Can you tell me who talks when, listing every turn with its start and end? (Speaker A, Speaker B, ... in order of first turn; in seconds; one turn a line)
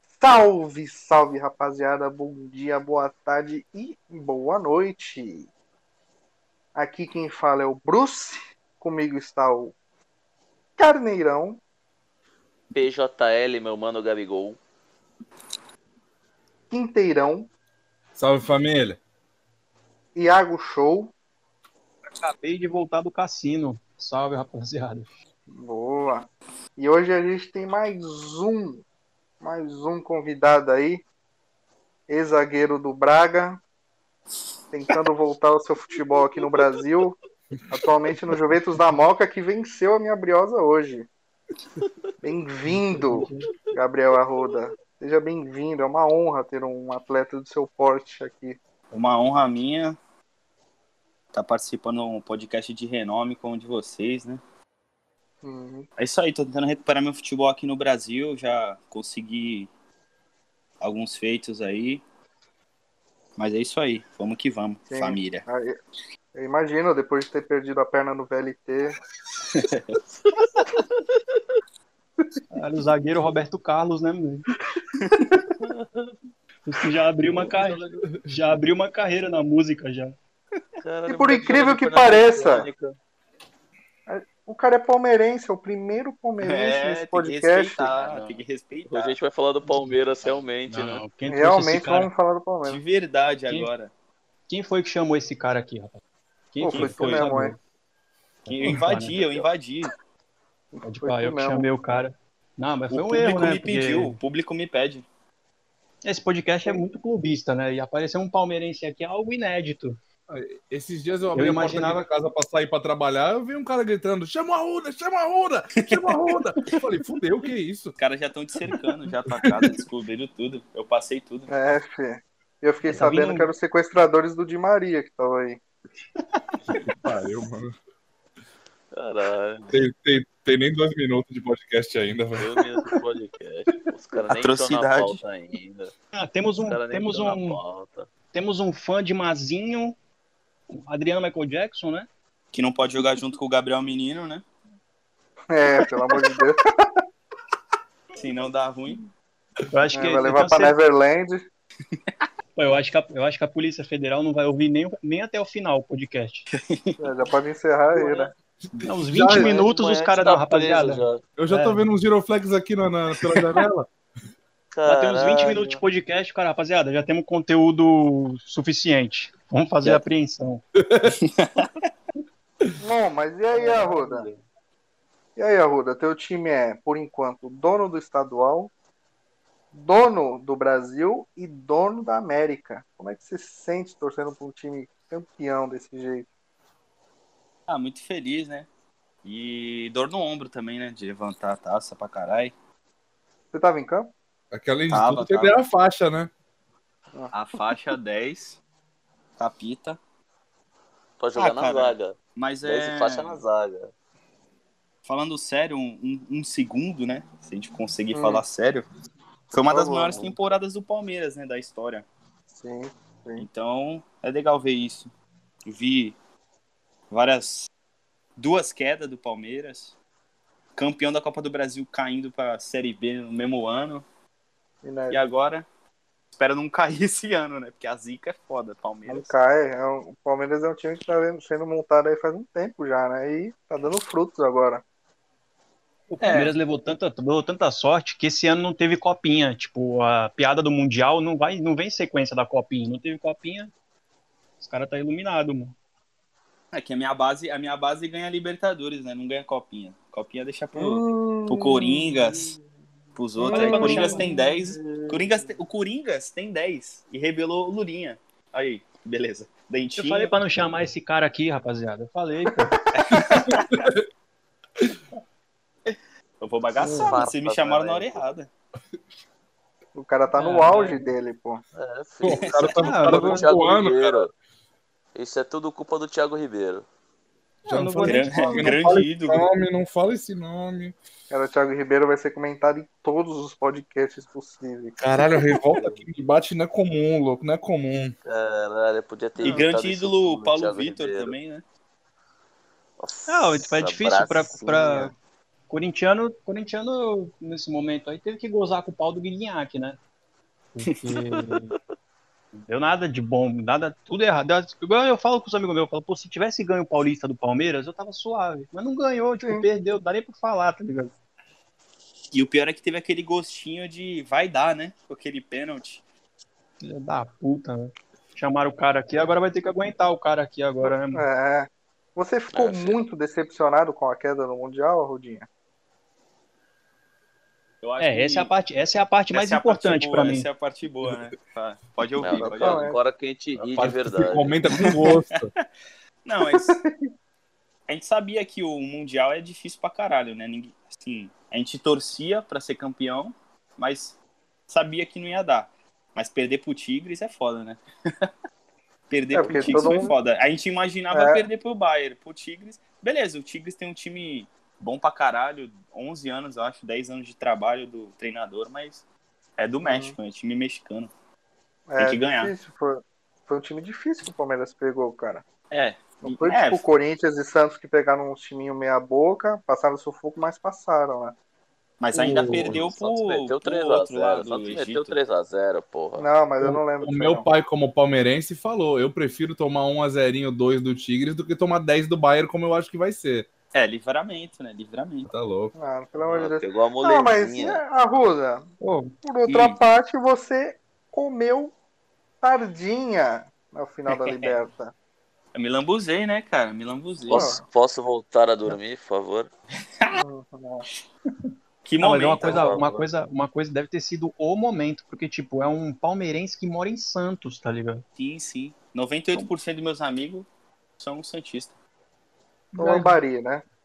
Speaker A: 0.2-5.5
Speaker A: 6.7-9.7
Speaker A: 10.8-11.6
Speaker B: 12.7-14.6
Speaker A: 16.7-17.5
Speaker C: 18.2-19.0
Speaker A: 20.1-21.1
Speaker D: 22.0-25.1
Speaker A: 25.5-28.8
Speaker A: 29.4-31.0
Speaker A: 32.1-33.6
Speaker A: 34.7-37.1
Speaker A: 37.7-41.1
Speaker A: 42.2-48.6
Speaker D: 42.9-43.5
Speaker E: 48.9-50.0
Speaker E: 51.3-54.4
Speaker A: 55.4-55.9
Speaker E: 56.0-59.7
Speaker E: 60.8-62.0
Speaker E: 63.4-65.5
Speaker A: 64.9-65.8
Speaker A: 66.3-69.0
Speaker E: 69.5-70.0
Speaker D: 72.5-74.5
Speaker B: 75.6-76.1
Speaker D: 76.7-80.1
Speaker C: 77.4-78.2
Speaker B: 80.8-82.9
Speaker A: 81.1-82.7
Speaker A: 84.1-87.9
Speaker E: 86.4-89.2
Speaker B: 87.9-91.0
Speaker D: 89.6-90.0
Speaker D: 90.7-92.1
Speaker A: 91.3-92.8
Speaker E: 92.7-93.9
Speaker D: 94.5-96.0
Speaker D: 96.5-97.6
Speaker A: 96.6-97.5
Speaker E: 96.7-97.3
Speaker E: 98.5-99.9
Speaker D: 98.5-99.2
Speaker A: 100.7-101.7
Speaker D: 100.8-104.2
Speaker E: 102.9-105.0
Speaker D: 106.0-110.0
Speaker C: 110.3-118.0
Speaker D: 111.3-112.1
Speaker E: 115.8-116.2
Speaker E: 118.0-121.5
Speaker C: 119.5-119.7
Speaker A: 121.5-125.6
Speaker D: 122.9-123.5
Speaker C: 126.8-127.7
Speaker B: 128.9-129.7
Speaker C: 129.7-132.9
Speaker B: 132.4-135.9
Speaker E: 134.3-135.2
Speaker D: 136.1-137.6
Speaker B: 136.6-138.1
Speaker D: 138.3-140.0
Speaker D: 140.7-142.1
Speaker E: 142.5-144.4
Speaker A: 145.5-146.6
Speaker E: 148.2-149.1
Speaker D: 149.7-150.8
Speaker A: 149.9-151.4
Speaker D: 152.6-156.5
Speaker E: 156.5-157.2
Speaker A: 157.0-158.3
Speaker B: 157.9-158.3
Speaker D: 158.8-161.8
Speaker C: 159.1-159.6
Speaker B: 159.4-161.2
Speaker C: 161.4-163.9
Speaker B: 164.7-165.7
Speaker D: 164.8-170.6
Speaker C: 170.8-171.1
Speaker E: 171.2-171.7
Speaker A: 172.8-174.3
Speaker B: 173.5-174.4
Speaker A: 175.3-178.7
Speaker A: 179.7-186.2
Speaker E: 187.7-188.7
Speaker E: 189.2-192.5
Speaker A: 193.5-194.1
Speaker C: 194.5-196.3
Speaker E: 194.9-195.6
Speaker E: 197.3-198.6
Speaker E: 199.4-200.0
Speaker B: 201.2-203.9
Speaker E: 201.3-203.4
Speaker E: 205.0-208.8
Speaker A: 208.1-208.4
Speaker E: 209.5-212.1
Speaker A: 209.7-210.3
Speaker A: 212.5-213.5
Speaker E: 213.4-215.1
Speaker E: 215.7-216.2
Speaker E: 217.1-217.7
Speaker E: 218.4-219.9
Speaker E: 220.8-224.0
Speaker A: 224.8-225.2
Speaker E: 225.1-225.7
Speaker E: 226.3-229.3
Speaker A: 229.1-234.8
Speaker D: 236.1-243.7
Speaker E: 236.2-236.5
Speaker D: 244.6-245.8
Speaker E: 246.7-252.5
Speaker A: 250.8-252.5
Speaker E: 253.2-260.3
Speaker A: 253.4-255.5
Speaker D: 253.5-254.3
Speaker D: 260.0-262.7
Speaker A: 262.5-263.4
Speaker E: 262.9-263.7
Speaker C: 263.4-264.0
Speaker E: 265.9-268.5
Speaker D: 266.8-267.2
Speaker B: 266.9-268.2
Speaker A: 269.9-271.6
Speaker D: 270.3-271.1
Speaker B: 271.7-274.3
Speaker C: 272.2-274.2
Speaker E: 272.2-272.9
Speaker D: 272.8-273.5
Speaker B: 275.1-276.8
Speaker D: 277.6-278.8
Speaker C: 277.7-280.9
Speaker E: 278.0-279.5
Speaker A: 281.3-286.0
Speaker C: 285.0-288.1
Speaker B: 288.2-291.3
Speaker E: 289.4-291.6
Speaker B: 293.0-295.1
Speaker D: 293.3-295.1
Speaker D: 295.7-300.0
Speaker D: 300.7-301.7
Speaker B: 301.3-301.8
Speaker D: 302.5-311.1
Speaker E: 312.3-316.0
Speaker D: 316.8-321.2
Speaker A: 321.1-325.5
Speaker B: 322.5-323.0
Speaker E: 327.8-328.5
Speaker D: 328.0-330.5
Speaker E: 329.3-332.9
Speaker B: 332.2-334.5
Speaker A: 332.4-333.0
Speaker C: 333.7-335.5
Speaker E: 334.7-335.6
Speaker E: 336.2-336.8
Speaker A: 336.5-337.1
Speaker E: 337.9-344.2
Speaker E: 344.7-348.3
Speaker E: 349.1-359.0
Speaker A: 349.3-350.1
Speaker A: 351.1-351.4
Speaker E: 359.6-361.1
Speaker A: 359.8-360.1
Speaker A: 361.9-365.4
Speaker E: 362.0-362.5
Speaker E: 365.7-366.8
Speaker A: 366.2-371.3
Speaker E: 372.0-375.1
Speaker D: 372.1-372.8
Speaker C: 372.2-372.7
Speaker B: 372.6-376.3
Speaker A: 376.2-377.4
Speaker C: 376.6-383.5
Speaker E: 383.7-385.3
Speaker C: 385.2-385.7
Speaker A: 385.7-388.7
Speaker B: 386.2-387.8
Speaker D: 388.8-389.1
Speaker A: 389.2-391.7
Speaker E: 389.5-389.8
Speaker A: 392.4-394.9
Speaker E: 394.1-394.6
Speaker E: 395.5-397.5
Speaker B: 397.2-399.5
Speaker A: 397.3-397.6
Speaker A: 400.1-400.9
Speaker D: 401.4-408.0
Speaker E: 401.8-403.0
Speaker B: 402.4-402.9
Speaker E: 408.2-410.5
Speaker E: 411.0-411.7
Speaker D: 412.7-413.2
Speaker A: 412.8-413.6